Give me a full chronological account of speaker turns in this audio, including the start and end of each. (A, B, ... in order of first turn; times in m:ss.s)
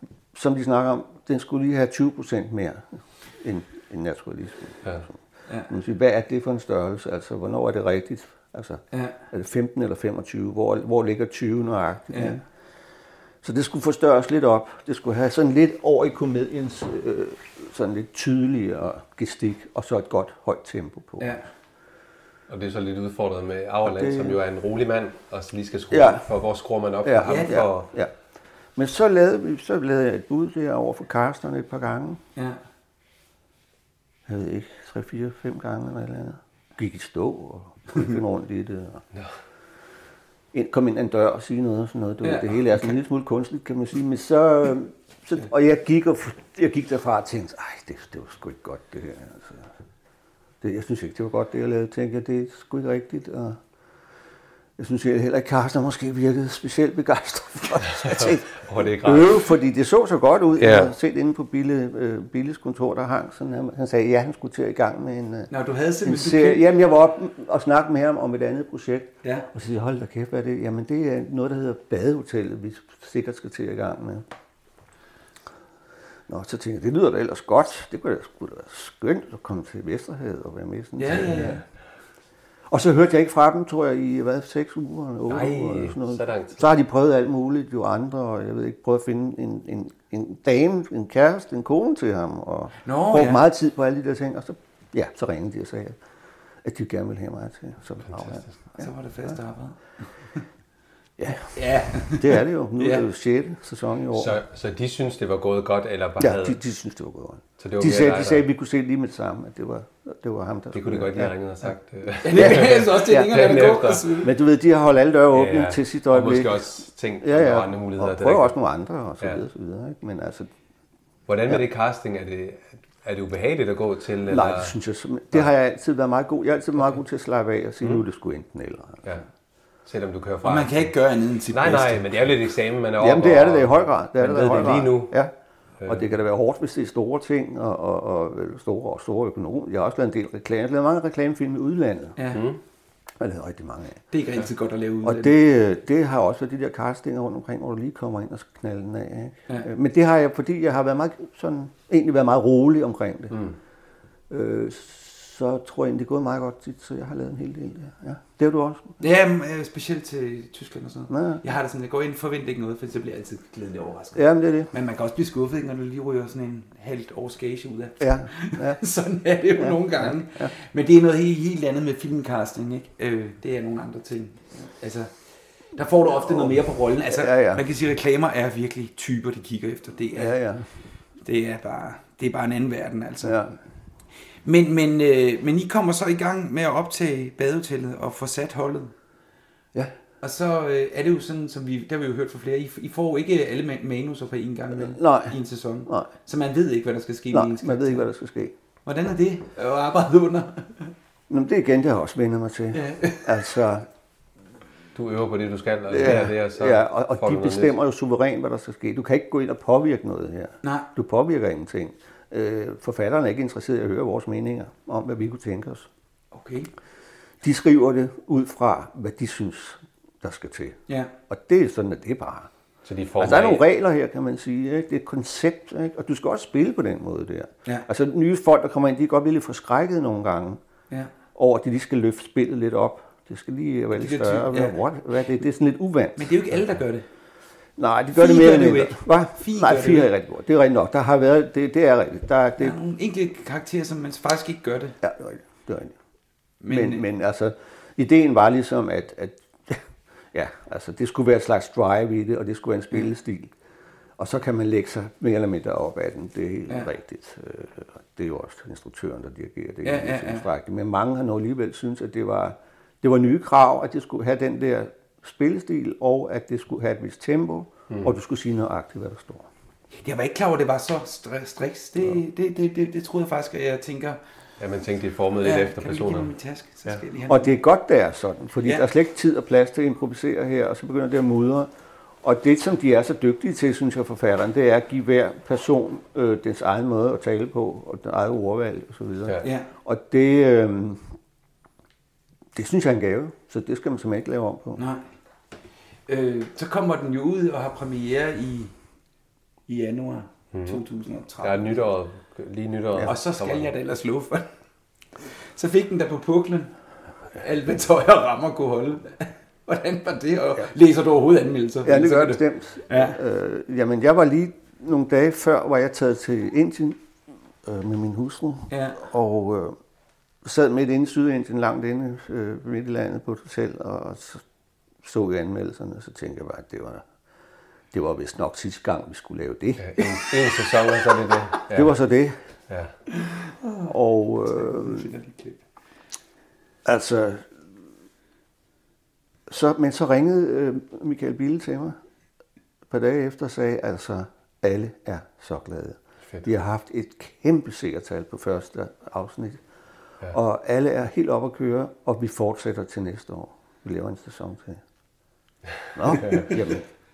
0:00.3-0:02.9 A
0:03.4-0:05.1 A
0:05.7-0:12.4 A
0:08.9-0:09.2 B
0:12.1-0:12.4 B
0:13.4-0:21.3 A
0:21.2-0:21.4 B
0:22.5-0:27.9 C
0:23.9-0:24.4 A
0:25.9-0:26.2 A
0:27.0-0:28.1 A
0:27.2-0:27.7 B
0:28.8-0:32.2 A
0:34.3-0:39.0 A
0:40.5-0:49.7 A
0:42.2-0:42.9 B
0:50.6-0:53.6 A
0:54.8-1:05.5 A
0:57.9-0:59.5 C
1:00.6-1:00.9 C
1:05.5-1:06.7 B
1:06.0-1:14.2 A
1:16.3-1:21.6 A
1:21.0-1:21.6 B
1:22.7-1:36.0 A
1:25.3-1:26.6 C
1:32.8-1:33.4 B
1:36.6-1:38.9 A
1:38.2-1:38.4 C
1:38.8-1:40.4 B
1:41.2-1:44.4 A
1:41.5-1:43.1 B
1:44.1-1:46.6 C
1:46.2-1:51.3 A
1:47.6-1:48.5 C
1:50.7-1:54.2 C
1:52.2-1:54.3 B
1:52.3-1:53.5 A
1:54.2-1:56.7 A
1:55.3-1:58.5 C
1:57.2-2:00.5 A
2:01.3-2:04.7 C
2:04.3-2:09.2 A
2:09.9-2:10.9 C
2:10.4-2:12.2 B
2:11.5-2:15.2 C
2:13.0-2:15.3 A
2:15.8-2:22.2 A
2:22.2-2:22.4 B
2:22.3-2:22.6 C
2:23.2-2:24.0 A
2:24.1-2:25.4 B
2:25.0-2:33.4 A
2:34.3-2:39.0 A
2:39.0-2:55.1 B
2:41.1-2:41.4 A
2:44.1-2:44.7 A
2:48.0-2:48.8 A
2:49.6-2:50.5 A
2:55.8-3:00.4 B
2:56.2-2:57.6 A
3:00.1-3:00.7 A
3:01.2-3:03.4 B
3:03.2-3:03.6 A
3:04.4-3:08.9 B
3:10.2-3:18.1 B
3:14.7-3:16.1 A
3:17.3-3:18.5 A
3:18.8-3:20.9 B
3:21.3-3:23.9 A
3:22.7-3:23.4 B
3:25.0-3:27.8 C
3:25.9-3:35.9 A
3:30.6-3:30.9 B
3:36.3-3:36.7 B
3:37.4-3:42.5 A
3:42.8-3:43.6 C
3:43.2-3:50.6 A
3:51.4-3:56.4 A
3:53.9-3:54.8 B
3:56.2-3:57.1 B
3:57.8-4:02.8 A
3:58.1-4:00.1 B
4:02.6-4:05.0 B
4:05.0-4:06.0 A
4:06.6-4:07.0 B
4:06.7-4:13.5 A
4:14.2-4:29.5 A
4:19.8-4:20.5 B
4:30.0-4:34.2 B
4:34.6-4:36.3 C
4:35.4-4:37.6 B
4:37.3-4:41.7 A
4:42.2-4:51.1 A
4:49.4-4:49.7 B
4:52.5-4:54.8 A
4:54.8-4:55.0 B
4:56.1-4:58.7 B
4:59.7-5:01.8 B
5:00.5-5:00.8 C
5:01.4-5:03.7 C
5:03.1-5:04.5 B
5:05.4-5:06.7 B
5:07.4-5:13.2 B
5:11.8-5:17.0 A
5:17.6-5:19.8 A
5:18.7-5:19.0 B
5:20.4-5:24.4 A
5:25.0-5:27.0 A
5:27.9-5:30.1 A
5:29.8-5:31.9 C
5:31.7-5:32.4 A
5:33.4-5:33.9 B
5:33.9-5:35.1 A
5:34.5-5:35.6 B
5:36.8-5:37.5 A
5:39.5-5:42.0 A
5:42.9-5:49.6 A
5:50.3-5:54.8 A
5:56.0-5:56.8 A
5:56.2-5:56.6 C